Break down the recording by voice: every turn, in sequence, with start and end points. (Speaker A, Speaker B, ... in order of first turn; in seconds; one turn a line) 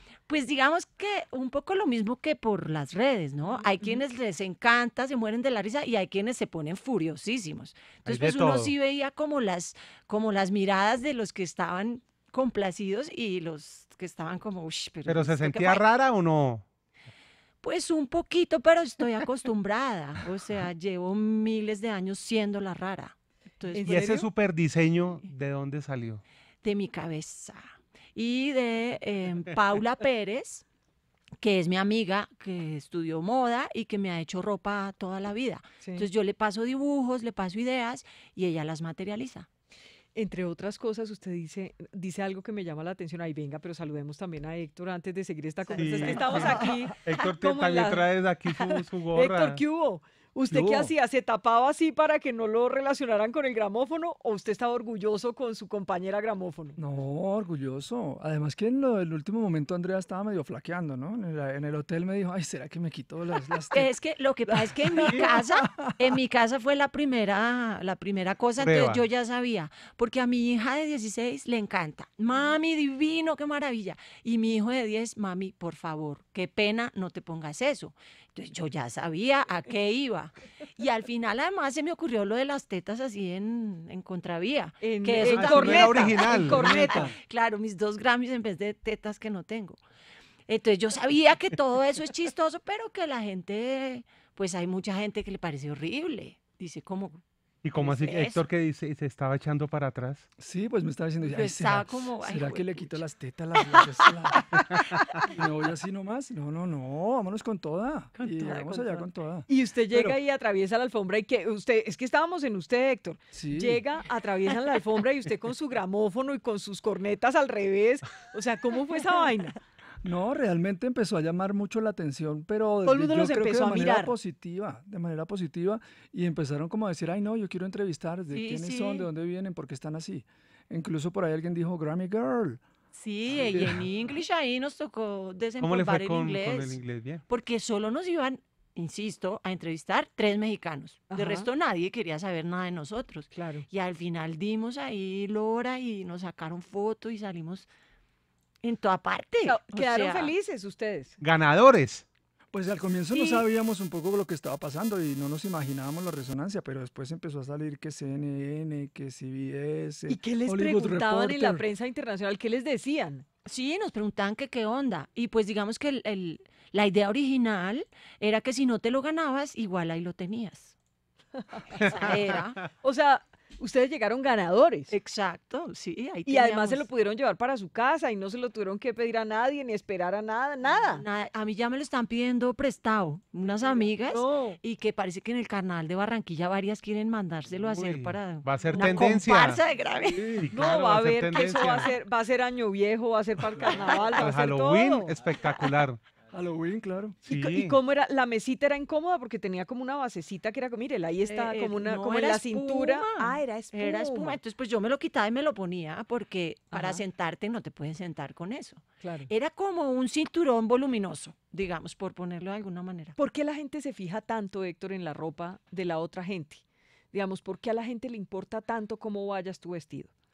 Speaker A: 0.3-15.9
Speaker B: 3.5-4.0
Speaker C: 8.1-8.7
Speaker C: 15.1-16.6
Speaker A: 17.6-24.2
Speaker B: 23.7-24.3
Speaker C: 23.8-26.2
Speaker A: 26.6-30.6
Speaker A: 31.4-39.5
Speaker B: 35.8-36.1
Speaker B: 40.1-56.8
Speaker A: 45.7-46.7
Speaker C: 45.8-49.6
Speaker D: 50.6-50.9
Speaker D: 56.8-63.9
Speaker A: 63.7-89.8
Speaker D: 64.5-66.2
Speaker C: 68.6-69.0
Speaker B: 84.8-87.1
Speaker C: 85.3-87.1
Speaker A: 90.5-97.2
Speaker C: 97.6-100.3
Speaker A: 97.8-98.4
Speaker D: 100.4-104.5
Speaker A: 101.2-103.0
Speaker A: 103.6-104.4
Speaker D: 105.3-110.2
Speaker A: 108.2-109.1
Speaker B: 109.5-119.6
Speaker D: 113.3-113.8
Speaker D: 120.0-132.6
Speaker B: 122.8-124.2
Speaker A: 128.3-129.1
Speaker A: 132.9-147.7
Speaker D: 133.3-133.8
Speaker C: 135.6-137.2
Speaker B: 141.1-141.5
Speaker B: 143.3-143.7
Speaker A: 148.6-150.3
Speaker B: 149.5-151.2
Speaker C: 151.2-152.1
Speaker D: 152.5-161.7
Speaker B: 153.1-153.4
Speaker B: 160.1-163.3
Speaker A: 163.4-170.7
Speaker B: 171.4-171.9
Speaker A: 171.8-172.7
Speaker C: 171.8-172.4
Speaker B: 172.8-174.9
Speaker A: 174.9-176.9
Speaker B: 176.3-181.0
Speaker A: 180.6-190.4
Speaker B: 184.1-184.6
Speaker C: 187.6-189.6
Speaker D: 190.2-190.5
Speaker C: 190.2-191.9
Speaker B: 190.5-195.1
Speaker A: 193.8-194.1
Speaker C: 194.1-196.0
Speaker D: 196.3-197.2
Speaker C: 197.2-197.8
Speaker B: 197.3-204.4
Speaker A: 201.3-213.2
Speaker B: 206.7-207.0
Speaker B: 209.0-209.3
Speaker B: 213.2-220.1